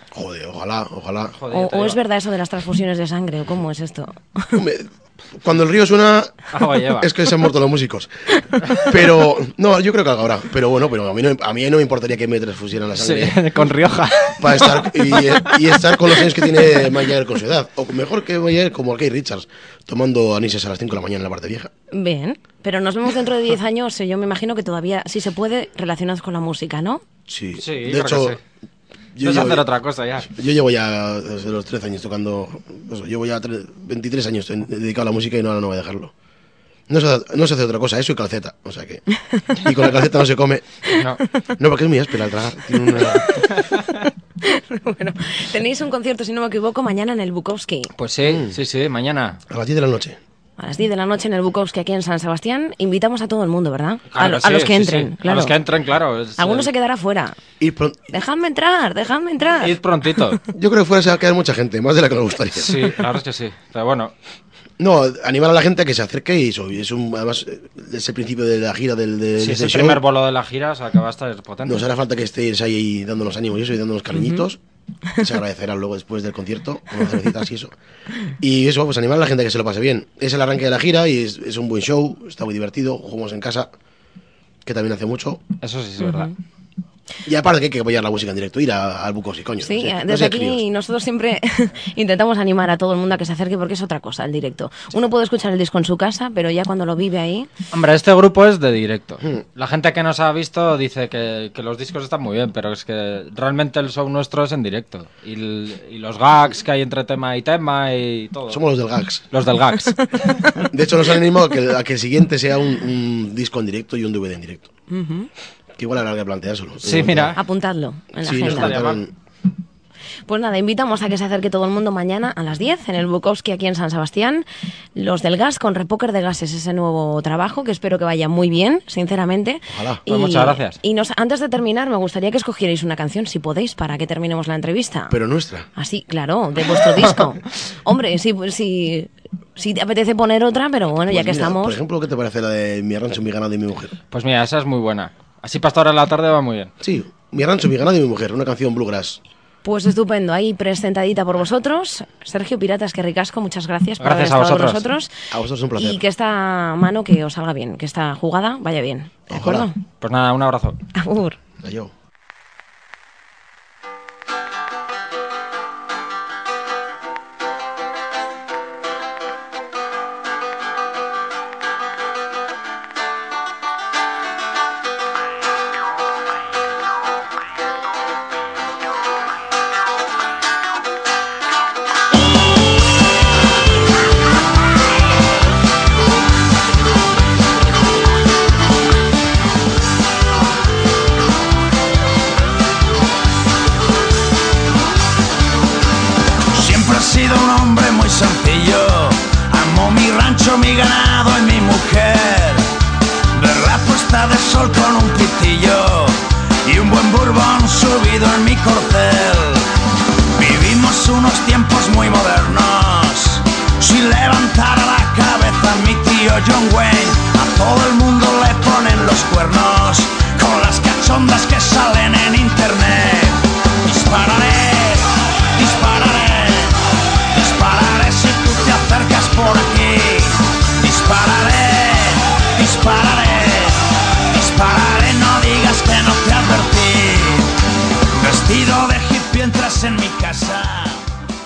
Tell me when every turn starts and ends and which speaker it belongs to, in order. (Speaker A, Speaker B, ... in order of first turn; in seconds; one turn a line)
Speaker A: 0.1-1.4
Speaker B: 1.4-2.0
Speaker C: 1.5-4.6
Speaker A: 4.5-13.4
Speaker B: 6.5-7.1
Speaker B: 13.0-16.1
Speaker A: 14.4-21.7
Speaker C: 21.9-27.0
Speaker A: 27.3-28.4
Speaker B: 27.6-28.4
Speaker A: 29.2-29.7
Speaker B: 29.2-30.3
Speaker A: 30.2-36.1
Speaker A: 36.9-39.0
Speaker A: 39.5-40.8
Speaker B: 40.9-41.2
Speaker A: 41.6-43.5
Speaker C: 44.4-47.9
Speaker B: 48.0-49.4
Speaker A: 48.2-48.6
Speaker A: 49.5-50.2
Speaker C: 50.6-55.5
Speaker B: 54.1-56.7
Speaker C: 56.4-57.4
Speaker A: 57.6-58.0
Speaker C: 58.1-59.8
Speaker B: 59.6-60.4
Speaker A: 60.5-63.0
Speaker B: 62.6-64.1
Speaker A: 64.8-70.0
Speaker B: 69.4-71.9
Speaker A: 71.7-74.6
Speaker C: 74.2-74.4
Speaker A: 75.2-77.7
Speaker A: 78.4-83.7
Speaker A: 84.7-85.4
Speaker B: 85.6-86.3
Speaker C: 86.0-86.3
Speaker A: 87.3-90.6
Speaker C: 89.6-97.5
Speaker B: 97.7-108.6
Speaker A: 108.5-109.2
Speaker B: 109.3-110.5
Speaker A: 110.6-114.7
Speaker C: 114.9-115.3
Speaker A: 115.8-117.4
Speaker B: 116.8-117.4
Speaker C: 117.4-118.8
Speaker A: 118.2-119.1
Speaker B: 118.3-119.0
Speaker C: 120.3-135.2
Speaker A: 129.7-130.0
Speaker B: 130.1-130.8
Speaker A: 135.1-135.7
Speaker C: 135.8-141.8
Speaker A: 141.1-144.0
Speaker B: 144.1-146.7
Speaker A: 146.8-149.2
Speaker C: 149.6-155.1
Speaker B: 154.0-154.8
Speaker A: 155.3-156.0
Speaker C: 155.8-159.8
Speaker A: 159.3-159.7
Speaker B: 160.0-160.8
Speaker C: 160.9-161.4
Speaker A: 161.6-161.9
Speaker D: 196.5-202.8
Speaker D: 203.3-209.7
Speaker D: 210.3-226.8
Speaker D: 227.3-237.6
Speaker D: 238.2-241.1